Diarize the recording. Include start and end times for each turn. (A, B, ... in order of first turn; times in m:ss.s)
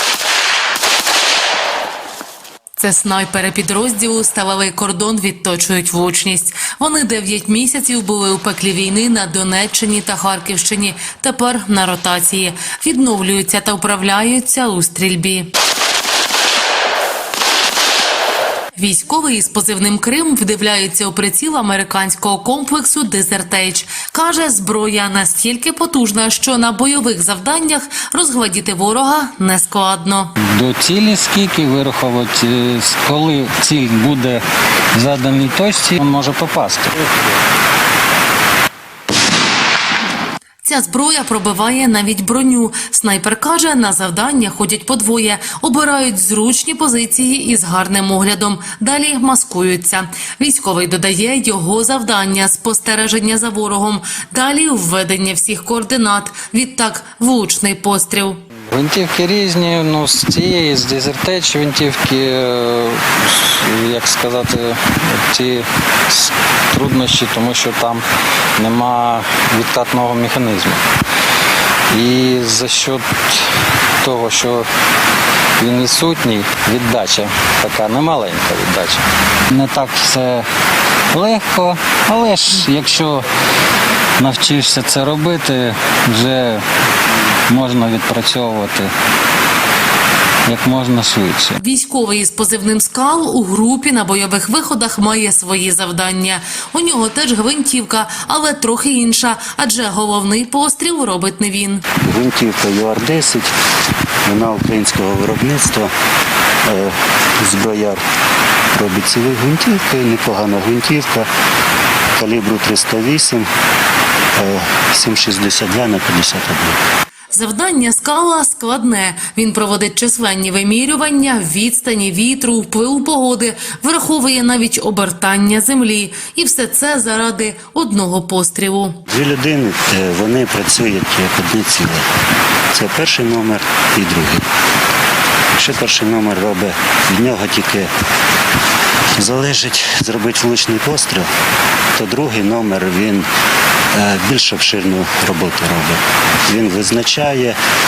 0:02.8-0:15.5 A
0:18.7-0:30.3 A
0:30.4-0:34.4 B
0:34.9-0:37.1 B
0:40.6-0:58.4 A
0:58.7-1:08.0 B
1:08.6-1:10.8 B
1:11.9-1:14.7 B
1:15.6-1:20.5 B
1:21.1-1:23.2 B
1:24.2-1:26.6 B
1:27.5-1:28.9 B
1:30.4-1:31.6 B
1:31.6-1:41.8 A
1:42.0-1:43.5 C
1:44.2-1:45.9 C
1:46.6-1:48.0 C
1:48.7-1:51.3 C
1:52.2-1:53.5 C
1:54.4-1:56.8 C
1:57.3-2:09.0 A
2:09.1-2:12.0 C
2:12.7-2:14.4 C
2:15.6-2:17.9 C
2:19.2-2:21.3 C
2:22.0-2:23.3 C
2:23.9-2:27.6 C